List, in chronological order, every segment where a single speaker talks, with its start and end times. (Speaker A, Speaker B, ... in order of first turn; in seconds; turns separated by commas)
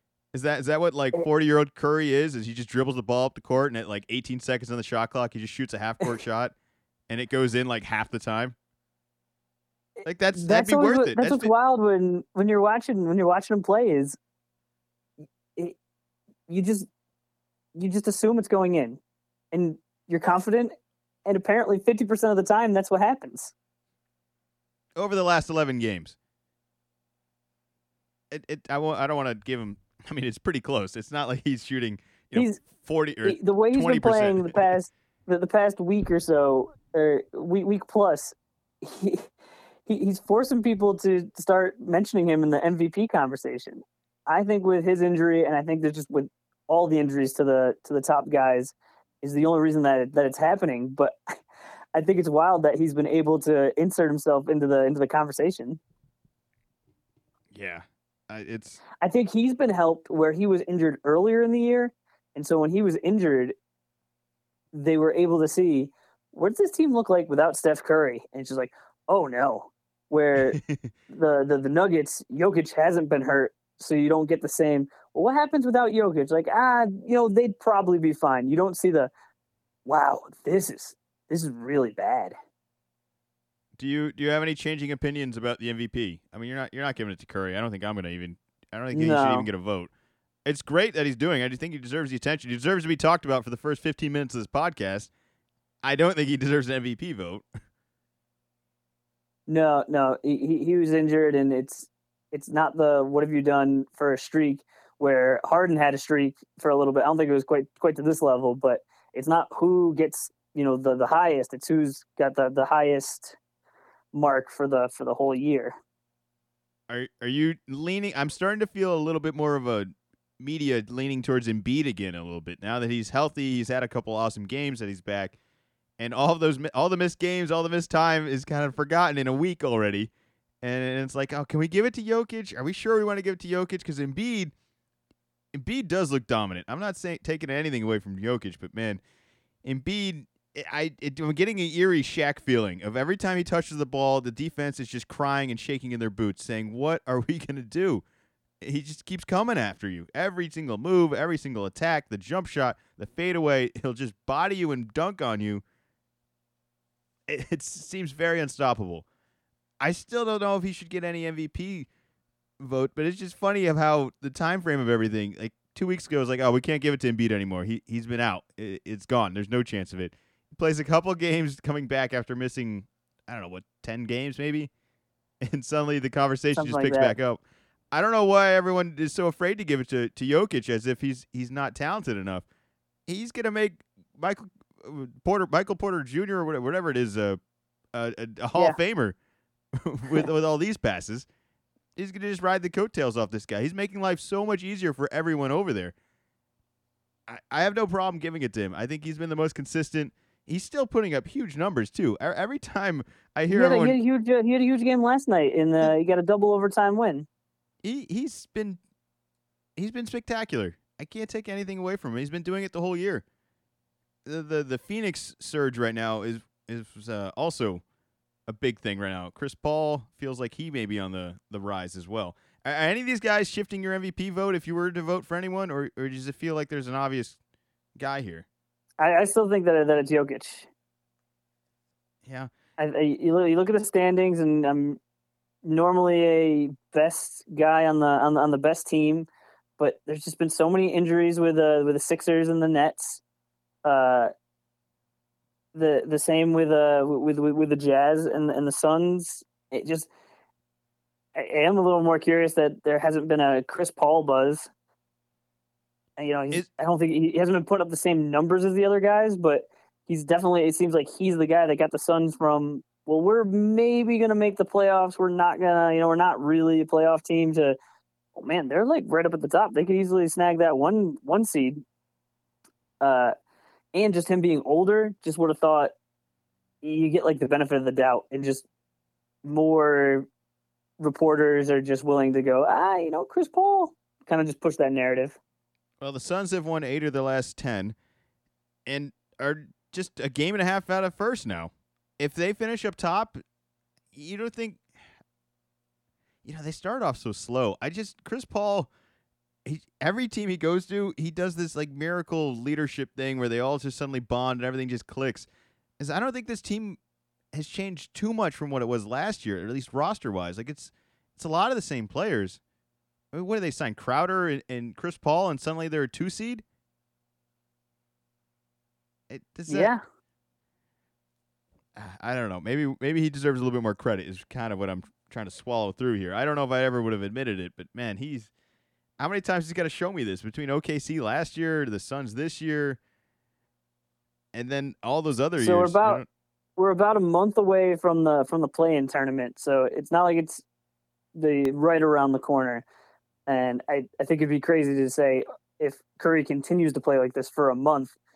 Speaker A: 0.3-6.5, Speaker A: 7.1-8.6, Speaker B: 10.0-14.2, Speaker A: 10.0-11.5, Speaker B: 16.5-16.9, Speaker B: 17.7-19.0, Speaker B: 19.5-20.7, Speaker B: 21.2-23.5, Speaker A: 24.9-26.1, Speaker A: 28.3-34.6, Speaker B: 32.3-32.6, Speaker B: 33.2-39.3, Speaker B: 39.9-51.1, Speaker B: 51.9-55.8, Speaker A: 57.5-58.8, Speaker B: 59.0-63.5, Speaker B: 64.7-79.1, Speaker A: 70.5-70.9, Speaker B: 79.8-82.3, Speaker A: 83.8-89.9, Speaker B: 88.9-89.5, Speaker A: 90.4-95.1, Speaker A: 95.8-97.5, Speaker B: 99.5-113.4, Speaker B: 114.1-115.7, Speaker A: 116.9-125.3, Speaker A: 126.0-130.1, Speaker A: 130.6-134.5, Speaker A: 135.5-139.0, Speaker A: 139.6-148.0, Speaker A: 148.6-155.6, Speaker A: 157.3-159.0, Speaker A: 159.8-161.9, Speaker A: 162.6-174.7, Speaker A: 175.4-177.4, Speaker B: 176.6-177.2, Speaker A: 177.9-182.4, Speaker A: 183.1-187.4, Speaker A: 187.9-189.2, Speaker A: 189.8-191.2, Speaker A: 191.9-195.9, Speaker A: 197.3-203.9, Speaker B: 203.5-207.3, Speaker A: 207.8-208.8, Speaker A: 209.8-213.2, Speaker A: 214.2-217.8, Speaker A: 218.5-227.4, Speaker A: 228.0-228.4, Speaker B: 229.0-230.7, Speaker A: 232.2-232.5, Speaker B: 232.8-235.0, Speaker B: 235.6-239.3, Speaker B: 239.8-243.2, Speaker B: 243.8-244.3, Speaker B: 245.7-250.1, Speaker B: 251.3-254.7, Speaker B: 256.2-267.8, Speaker B: 268.4-271.8, Speaker B: 273.0-273.3, Speaker B: 273.9-275.9, Speaker B: 276.8-278.6, Speaker B: 279.4-280.3, Speaker B: 281.0-285.4, Speaker A: 286.0-287.9, Speaker A: 288.9-293.4, Speaker A: 294.1-294.8, Speaker A: 296.4-298.9, Speaker A: 299.6-305.5, Speaker A: 306.0-307.0, Speaker A: 307.5-312.6, Speaker A: 313.3-316.6, Speaker A: 319.3-319.9, Speaker B: 319.7-320.0, Speaker A: 321.9-328.5, Speaker A: 329.2-333.0, Speaker A: 334.5-336.2, Speaker B: 335.6-336.2, Speaker B: 336.8-340.6, Speaker B: 341.3-342.8, Speaker B: 343.5-348.1